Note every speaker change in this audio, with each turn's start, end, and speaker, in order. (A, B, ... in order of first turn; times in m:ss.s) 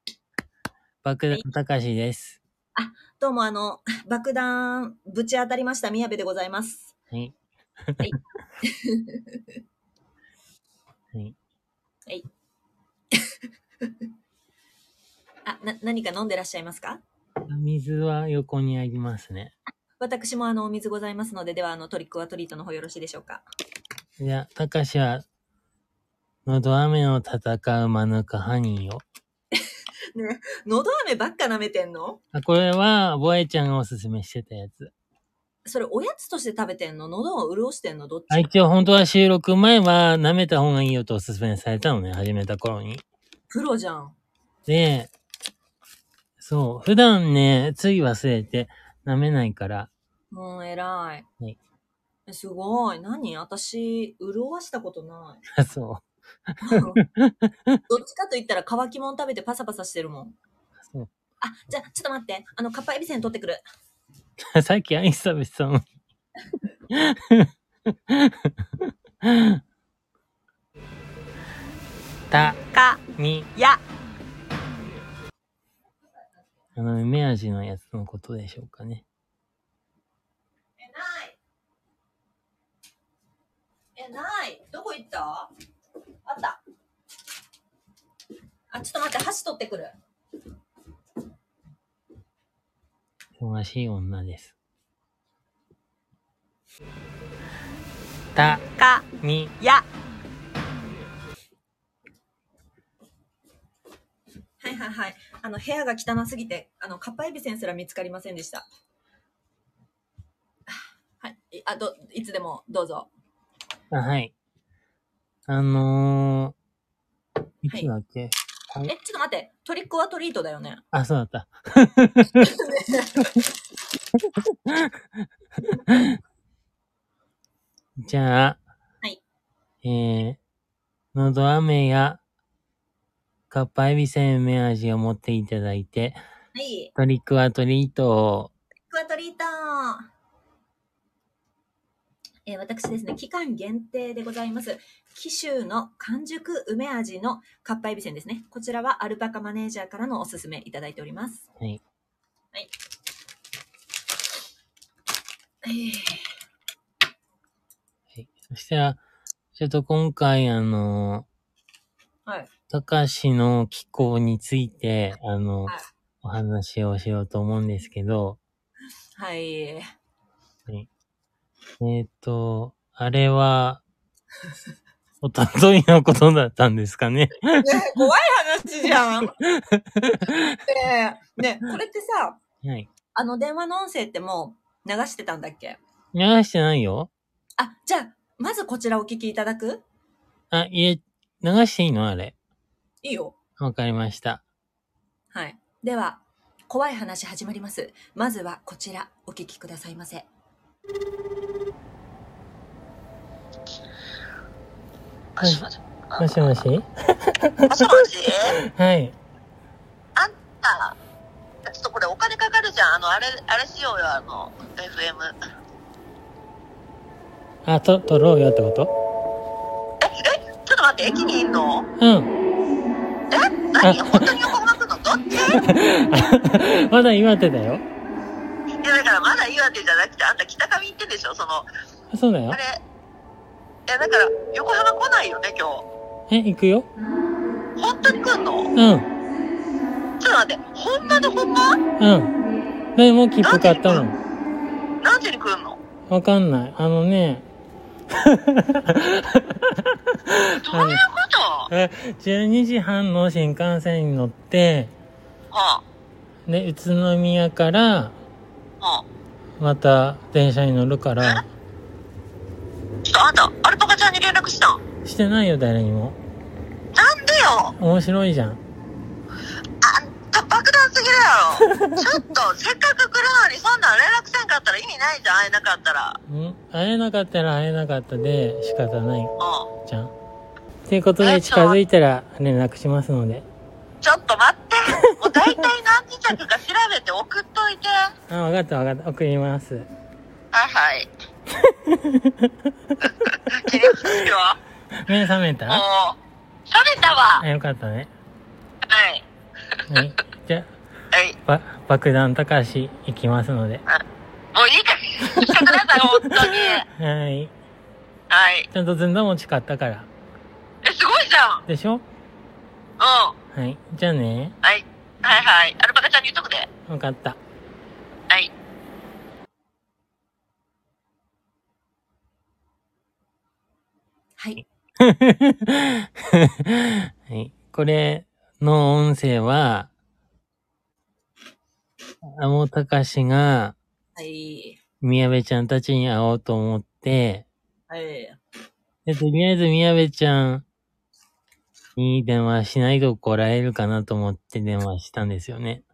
0:01.0-0:02.4 A
0:02.7-0:06.9 B
0:07.9-0:08.1 A
0:08.0-0:09.6 B
0:13.1-0:13.9 B
0:15.4-0:17.0 B
0:17.5-0:19.5 A
0:20.0-0:23.4 B
0:24.2-0:25.2 A
0:26.4-0:29.0 A
0:29.6-0:32.2 B
0:32.3-0:34.9 A
0:35.6-0:38.5 B
0:38.3-0:43.0 A
0:43.5-0:44.2 B
0:44.7-0:45.1 A
0:46.4-0:49.9 A
0:50.3-0:51.3 B
0:52.3-0:55.4 B
0:55.5-0:57.8 A
0:56.6-0:57.0 B
0:57.9-1:00.4 B
1:01.4-1:03.6 B
1:04.4-1:05.8 A
1:06.9-1:09.6 A
1:12.3-1:12.6 A
1:12.6-1:13.0 B
1:13.2-1:13.5 A
1:13.5-1:13.8 B
1:16.8-1:19.0 A
1:20.8-1:21.4 B
1:24.0-1:25.5 B
1:26.2-1:26.6 B
1:28.7-1:29.9 B
1:33.4-1:34.5 A
1:38.4-1:38.6 A
1:38.6-1:39.1 B
1:39.2-1:39.5 A
1:39.6-1:39.8 B
1:44.6-1:48.6 B
1:50.7-1:53.1 B
1:53.9-1:54.3 A
1:55.5-1:56.5 A
1:57.6-1:58.9 A
1:58.8-2:00.8 B
2:00.9-2:02.5 A
2:02.4-2:03.3 B
2:04.2-2:06.2 A
2:08.0-2:08.6 A
2:09.8-2:10.4 A
2:11.1-2:12.2 A
2:13.5-2:16.2 A
2:16.5-2:16.9 B
2:16.9-2:18.5 A
2:18.9-2:20.1 B
2:22.4-2:31.4 B
2:35.6-2:36.3 B
2:38.1-2:39.0 A
2:39.6-2:41.3 A
2:42.7-2:48.4 A
2:49.2-2:49.9 B
2:51.8-2:53.8 A
2:55.2-2:57.7 A
2:57.6-2:59.4 B
2:59.4-3:00.6 A
3:00.6-3:02.4 B
3:02.6-3:02.9 A
3:03.1-3:05.8 B
3:06.1-3:07.1 A
3:07.6-3:09.8 B
3:10.5-3:12.3 A
3:13.0-3:13.4 B
3:13.6-3:14.4 A
3:15.3-3:20.3 B
3:25.4-3:26.4 C
3:25.4-3:27.9 A
3:27.7-3:28.5 C
3:28.7-3:29.1 A
3:30.2-3:31.0 C
3:31.6-3:35.3 C
3:37.6-3:38.9 A
3:40.0-3:41.9 C
3:42.0-3:42.3 A
3:43.3-3:45.7 C
3:43.8-3:44.3 A
3:45.5-3:47.8 A
3:48.8-3:51.7 C
3:52.1-3:52.6 A
3:52.5-3:52.8 C
3:53.9-3:55.8 C
3:56.3-3:56.9 A
3:57.8-3:58.7 C
3:58.7-3:59.1 A
4:00.2-4:01.8 C
4:02.0-4:02.3 A
4:02.9-4:04.2 A
4:03.4-4:04.0 C
4:05.0-4:05.8 C
4:06.1-4:07.4 A
4:08.1-4:11.0 A
4:10.6-4:11.7 C
4:11.7-4:14.9 A
4:15.5-4:15.8 C
4:16.5-4:18.2 A
4:18.8-4:19.0 C
4:19.6-4:21.4 A
4:23.0-4:24.8 C
4:25.0-4:26.2 A
4:26.9-4:27.7 C
4:27.8-4:28.6 A
4:29.8-4:36.2 C
4:31.7-4:32.0 A
4:36.3-4:39.3 A
4:39.4-4:39.7 C
4:39.8-4:40.1 A
4:40.9-4:43.4 A
4:41.2-4:41.8 C
4:44.0-4:48.1 C
4:45.1-4:45.6 A
4:48.3-4:49.9 A
4:50.5-4:51.1 C
4:51.6-4:54.2 A
4:53.3-4:54.6 C
4:54.9-4:55.8 A
4:55.7-4:56.2 C
4:56.7-4:57.4 C
4:57.4-4:58.1 A
4:58.8-4:59.2 C
4:59.9-5:00.7 A
5:01.1-5:01.4 C
5:01.4-5:03.8 A
5:04.5-5:06.8 C
5:05.3-5:07.5 A
5:08.3-5:08.7 C
5:08.7-5:10.1 A
5:10.8-5:11.6 C
5:11.7-5:12.0 A
5:13.0-5:13.3 C
5:13.5-5:14.5 A
5:14.6-5:16.7 C
5:16.9-5:17.4 A
5:24.4-5:24.6 B
5:25.0-5:29.9 A
5:32.2-5:33.8 A
5:34.2-5:34.8 B
5:35.0-5:37.4 A
5:37.9-5:38.4 B
5:39.0-5:40.6 A
5:42.0-5:45.8 A